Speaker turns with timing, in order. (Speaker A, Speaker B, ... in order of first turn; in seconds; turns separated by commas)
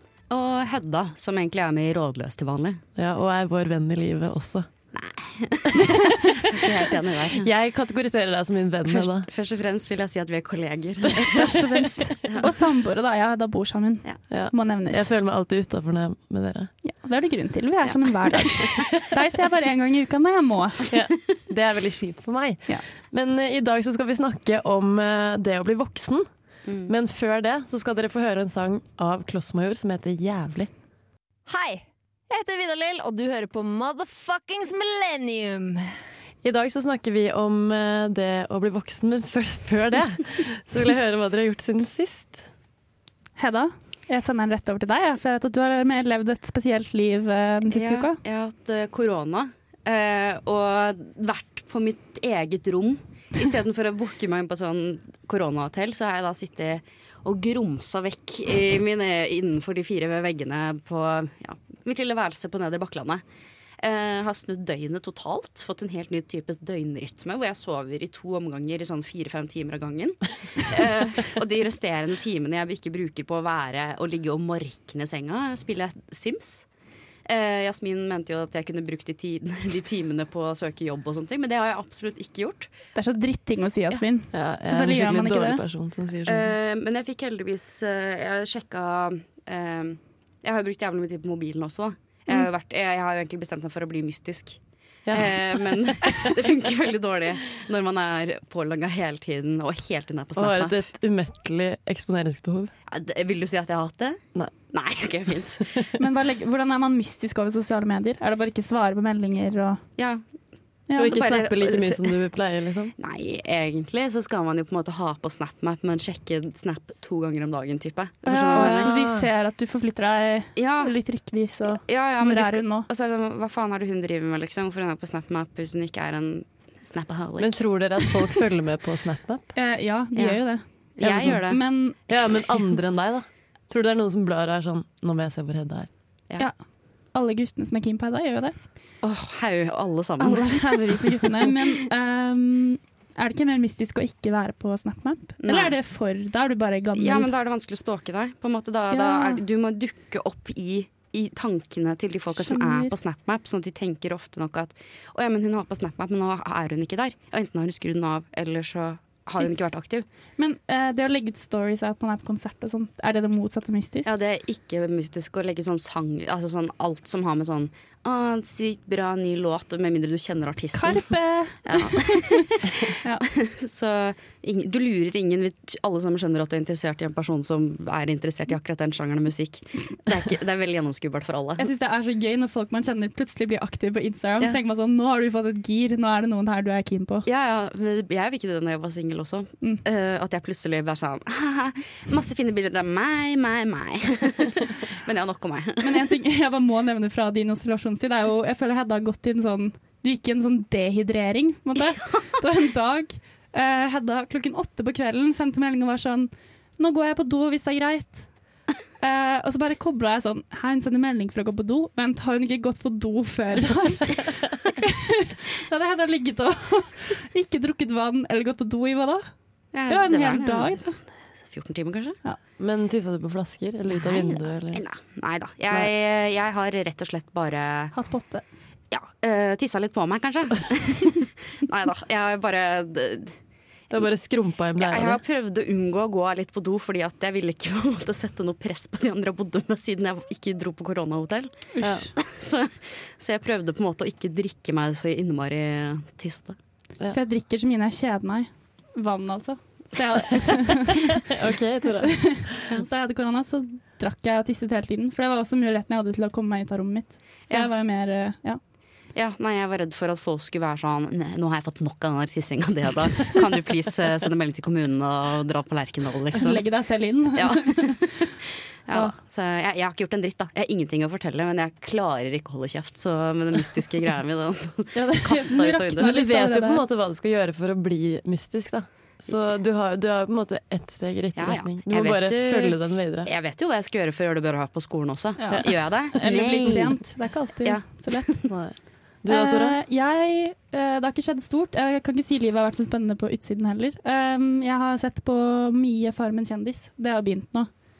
Speaker A: 0.3-2.8, Speaker B: 3.0-4.7, Speaker A: 4.9-5.8, Speaker C: 5.8-6.1, Speaker A: 6.3-7.5, Speaker B: 7.3-9.3, Speaker A: 9.0-11.7, Speaker B: 11.1-11.8, Speaker C: 11.3-15.1, Speaker A: 12.2-12.5, Speaker B: 14.3-16.7, Speaker C: 16.8-20.8, Speaker B: 20.9-26.2, Speaker A: 26.6-26.9, Speaker B: 26.9-30.7, Speaker D: 31.5-35.9, Speaker B: 36.4-42.5, Speaker C: 43.4-48.2, Speaker A: 47.7-63.2, Speaker A: 63.8-76.6, Speaker A: 77.2-82.7, Speaker C: 82.9-85.6, Speaker B: 84.3-86.5, Speaker A: 86.2-94.6, Speaker B: 95.0-96.3, Speaker A: 95.1-100.8, Speaker B: 100.3-102.7, Speaker A: 102.9-105.7, Speaker C: 106.0-109.8, Speaker A: 110.0-110.2, Speaker C: 110.9-111.2, Speaker B: 110.9-112.9, Speaker A: 111.0-112.2, Speaker A: 113.0-118.9, Speaker C: 118.2-122.9, Speaker B: 118.5-119.3, Speaker A: 120.5-121.0, Speaker A: 121.8-127.5, Speaker B: 127.4-129.4, Speaker C: 129.5-132.0, Speaker A: 130.2-130.4, Speaker A: 131.0-131.6, Speaker B: 131.0-131.4, Speaker B: 132.1-135.9, Speaker C: 137.1-138.5, Speaker A: 139.0-141.6, Speaker C: 140.2-147.3, Speaker A: 145.4-145.7, Speaker A: 147.0-160.0, Speaker C: 148.9-149.4, Speaker C: 152.3-152.9, Speaker C: 159.4-159.6, Speaker C: 160.4-164.1, Speaker A: 164.0-171.1, Speaker C: 170.7-173.2, Speaker A: 171.6-181.7, Speaker C: 181.6-187.2, Speaker A: 187.2-196.0, Speaker C: 195.8-208.3, Speaker C: 209.0-219.2, Speaker A: 219.7-220.8, Speaker C: 219.9-221.0, Speaker A: 221.4-222.2, Speaker B: 222.6-224.8, Speaker A: 223.9-227.9, Speaker C: 227.9-228.4, Speaker A: 228.9-233.3, Speaker B: 233.9-235.2, Speaker A: 234.8-241.7, Speaker C: 241.7-242.1, Speaker B: 241.8-242.1, Speaker A: 242.2-246.6, Speaker C: 247.1-251.2, Speaker B: 251.3-252.5, Speaker C: 252.0-258.6, Speaker A: 259.1-266.6, Speaker C: 266.3-267.9, Speaker A: 267.3-268.3, Speaker A: 268.9-276.1, Speaker C: 274.9-276.8, Speaker B: 276.0-283.3, Speaker A: 281.4-287.0, Speaker C: 285.4-288.4, Speaker A: 287.6-288.5, Speaker B: 288.5-289.8, Speaker C: 289.3-297.7